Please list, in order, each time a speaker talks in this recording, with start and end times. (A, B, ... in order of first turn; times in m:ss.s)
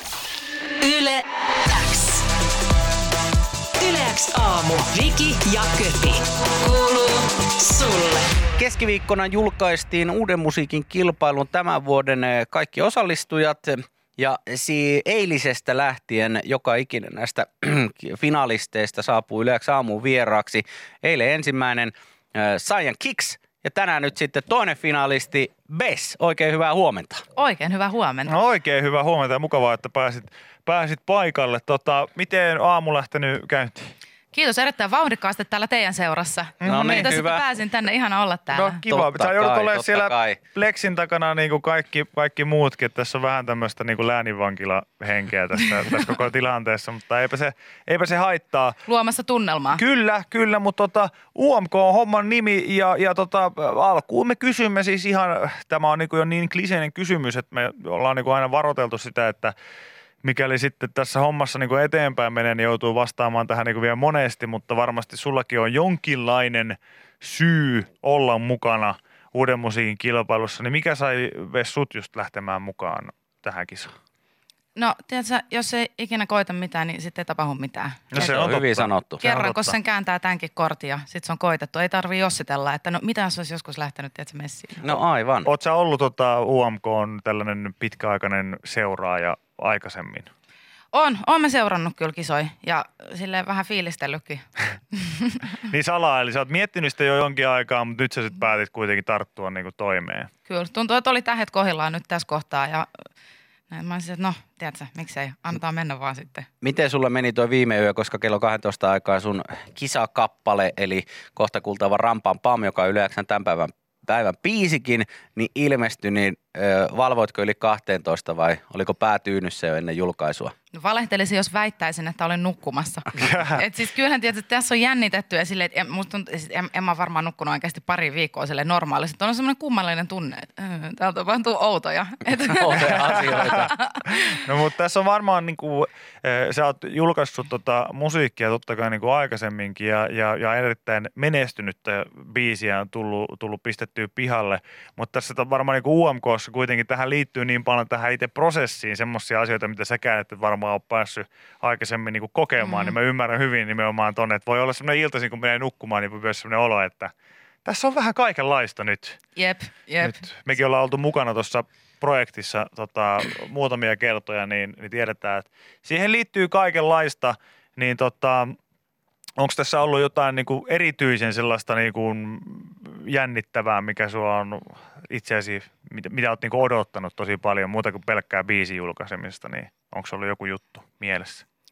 0:00.8-0:02.2 A
0:03.8-0:08.3 A
0:08.6-0:27.2 B
0:27.4-0:28.4 C
0:28.3-0:33.9 D
0:34.3-0:38.8 C
0:36.6-0:37.2 D
0:36.6-0:37.4 B
0:38.5-0:48.8 D
0:38.9-0:40.4 B
0:48.8-0:49.8 C
0:49.8-0:59.5 D
1:00.2-1:13.9 D
1:14.8-1:18.4 C
1:18.1-1:19.8 D
1:18.2-1:19.2 B
1:19.2-1:24.9 C
1:24.8-1:25.5 B
1:25.4-1:30.3 D
1:30.9-1:35.5 C
1:35.6-1:40.3 D
1:40.5-1:42.9 C
1:43.7-1:46.5 C
1:46.6-2:00.5 B
2:00.7-2:14.4 C
2:03.2-2:03.6 D
2:12.5-2:13.7 B
2:13.0-2:13.7 D
2:14.3-2:37.1 D
2:32.6-2:33.0 C
2:37.6-2:39.2 D
2:39.4-2:40.2 C
2:40.0-2:48.5 D
2:49.4-3:01.4 D